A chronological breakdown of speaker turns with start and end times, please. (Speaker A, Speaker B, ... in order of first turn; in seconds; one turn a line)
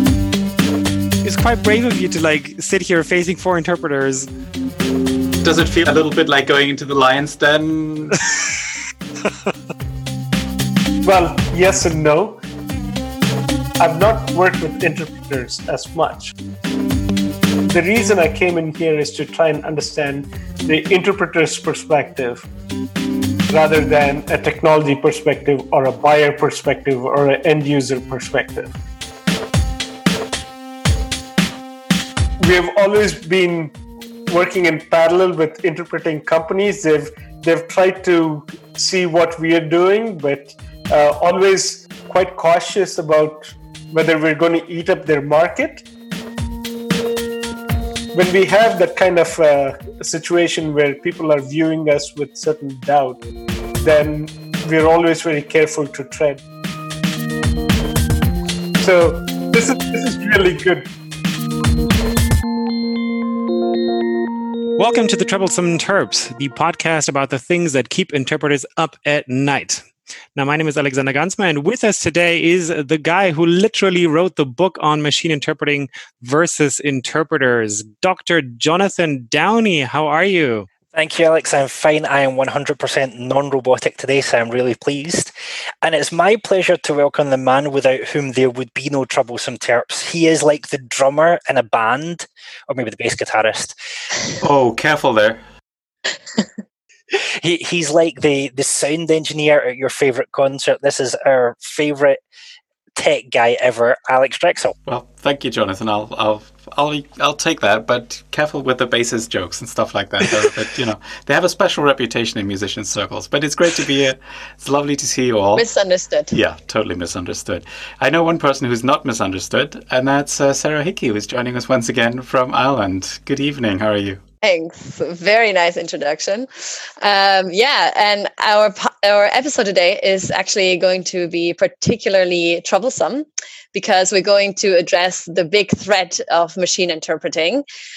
Speaker A: 1.2-4.3
Speaker B: 5.4-8.3
Speaker C: 11.0-12.4
Speaker C: 13.8-16.3
Speaker C: 17.6-22.5
Speaker C: 23.5-28.7
Speaker C: 32.4-33.7
Speaker C: 34.3-45.8
Speaker C: 48.1-53.2
Speaker C: 53.8-56.4
Speaker C: 58.8-60.9
Speaker A: 64.8-80.7
Speaker D: 80.9-93.8
Speaker B: 94.4-95.4
Speaker D: 97.4-102.2
Speaker D: 103.0-104.8
Speaker B: 104.9-115.7
Speaker E: 115.5-116.3
Speaker B: 116.3-124.2
Speaker E: 124.4-137.6